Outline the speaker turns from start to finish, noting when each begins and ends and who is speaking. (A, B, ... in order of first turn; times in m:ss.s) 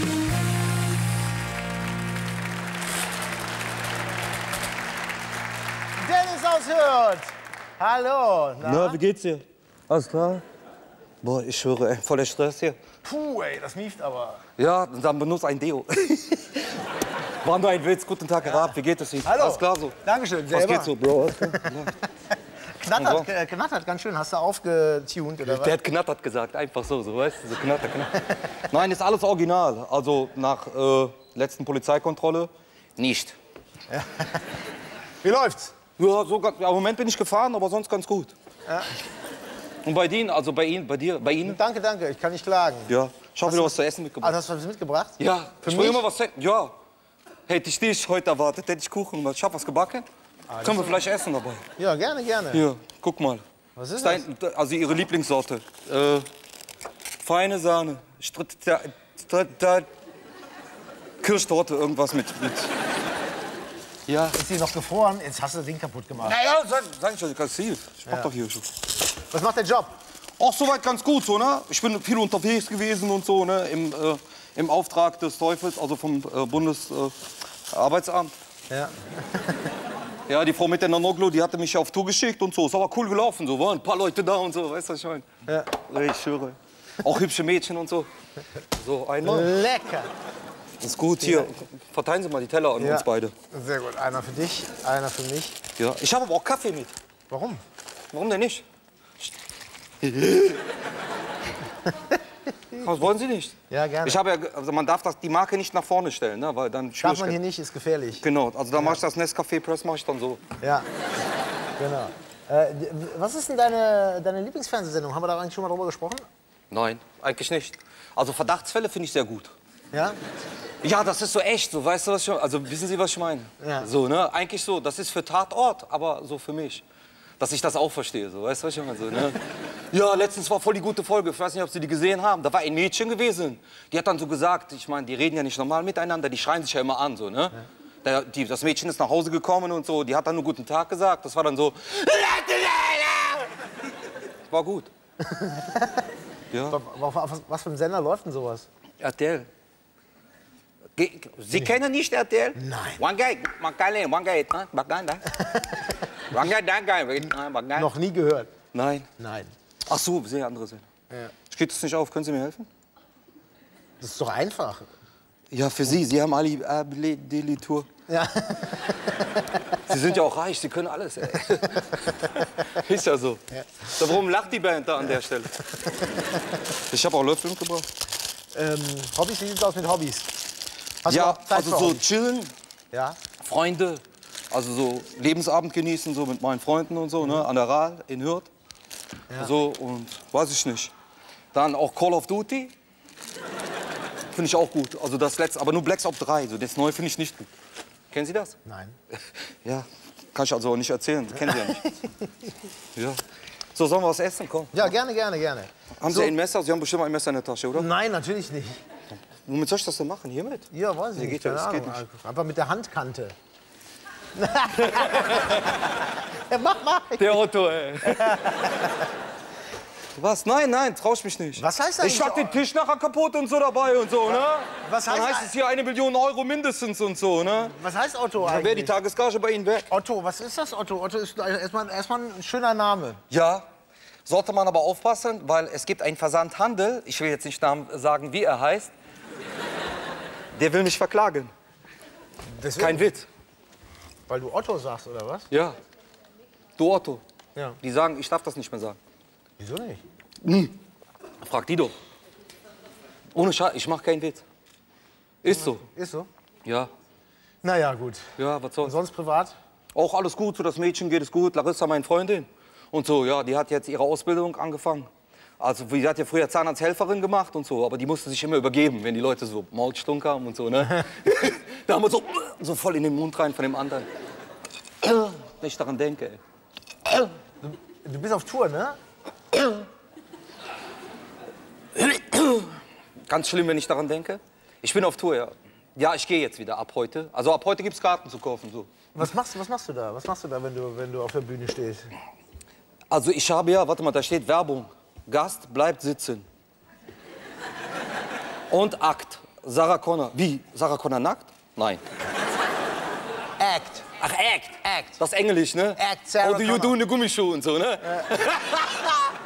0:06.0-0:09.0 A
0:08.6-0:10.4 B
0:11.2-0:12.8 B
0:13.0-0:14.4 A
0:14.6-0:16.8 B
0:17.4-0:20.0 B
0:18.4-0:18.7 A
0:19.2-0:21.9 A
0:20.5-0:22.0 B
0:22.8-0:25.8 A
0:22.9-0:23.3 B
0:25.4-0:33.4 B
0:33.9-0:34.4 A
0:35.2-0:35.7 A
0:36.0-0:38.3 B
0:39.8-0:41.6 B
0:41.4-0:42.9 A
0:42.9-0:44.4 B
0:43.5-0:46.0 A
0:45.2-0:46.7 B
0:47.5-0:50.1 B
0:50.5-0:51.0 A
0:50.6-0:51.6 B
0:51.8-0:52.6 A
0:52.5-0:53.4 B
0:53.8-0:54.2 A
0:54.0-0:56.3 B
0:57.2-0:59.9 B
1:01.2-1:02.7 B
1:04.1-1:04.4 B
1:04.3-1:06.4 A
1:06.2-1:08.7 B
1:09.3-1:09.9 A
1:10.4-1:17.1 B
1:17.7-1:18.3 B
1:18.7-1:19.7 A
1:20.3-1:28.1 B
1:28.7-1:29.5 B
1:29.2-1:30.1 A
1:30.8-1:33.3 B
1:31.2-1:31.5 A
1:32.8-1:35.6 A
1:35.8-1:36.9 B
1:37.3-1:37.6 A
1:38.1-1:38.6 B
1:40.0-1:40.6 B
1:42.7-1:47.4 B
1:43.7-1:44.2 A
1:47.0-1:48.2 A
1:48.2-1:50.4 B
1:50.6-1:50.9 A
1:51.8-1:56.2 A
1:56.7-1:59.5 B
1:59.9-2:00.2 A
2:00.8-2:06.8 B
2:03.6-2:03.9 A
2:07.4-2:23.5 B
2:24.5-2:24.9 B
2:25.2-2:26.0 A
2:26.5-2:26.8 B
2:26.7-2:28.7 A
2:29.0-2:29.5 B
2:31.0-2:35.3 B
2:32.6-2:33.0 A
2:35.4-2:36.0 A
2:36.3-2:37.9 B
2:37.8-2:38.5 A
2:38.7-2:39.1 B
2:39.2-2:39.5 A
2:39.9-2:40.8 B
2:41.5-2:42.7 B
2:44.0-2:44.9 A
2:45.5-2:47.9 B
2:48.1-2:49.8 A
2:49.9-2:55.6 B
2:55.8-2:56.3 A
2:56.8-2:57.9 B
2:58.5-3:00.4 A
3:01.0-3:02.0 A
3:01.1-3:02.5 B
3:02.9-3:03.2 A
3:03.4-3:08.5 B
3:09.4-3:10.9 B
3:11.5-3:12.7 B
3:14.3-3:17.5 B
3:18.1-3:18.6 B
3:18.6-3:19.0 A
3:19.1-3:21.8 B
3:21.5-3:22.3 A
3:23.0-3:23.2 B
3:23.8-3:24.9 B
3:24.7-3:26.3 A
3:26.0-3:27.9 B
3:27.8-3:28.8 A
3:29.4-3:32.0 B
3:30.7-3:33.3 A
3:34.4-3:37.4 A
3:37.2-3:38.5 B
3:38.0-3:39.1 A
3:40.2-3:47.8 B
3:41.6-3:42.6 A
3:44.8-3:45.5 A
3:47.6-3:49.0 A
3:48.4-3:49.9 B
3:49.9-3:53.2 A
3:53.3-3:53.7 B
3:54.3-3:58.9 B
4:00.6-4:01.5 B
4:02.6-4:03.1 A
4:02.8-4:03.3 B
4:04.3-4:05.5 A
4:06.8-4:07.2 B
4:07.8-4:09.0 B
4:09.6-4:10.0 A
4:10.4-4:10.7 B
4:11.4-4:11.9 B
4:13.3-4:14.4 B
4:15.4-4:15.8 B
4:15.5-4:16.3 A
4:16.6-4:16.9 B
4:17.6-4:18.3 A
4:18.4-4:19.0 B
4:18.8-4:19.5 A
4:19.9-4:25.1 B
4:25.6-4:34.1 B
4:35.0-4:36.4 B
4:37.6-4:39.0 A
4:42.0-4:42.7 B
4:43.3-4:48.9 B
4:49.2-4:52.1 A
4:53.1-4:56.4 B
4:58.7-5:02.0 B
5:03.6-5:04.1 A
5:04.2-5:09.2 B
5:06.0-5:07.0 A
5:08.0-5:08.3 A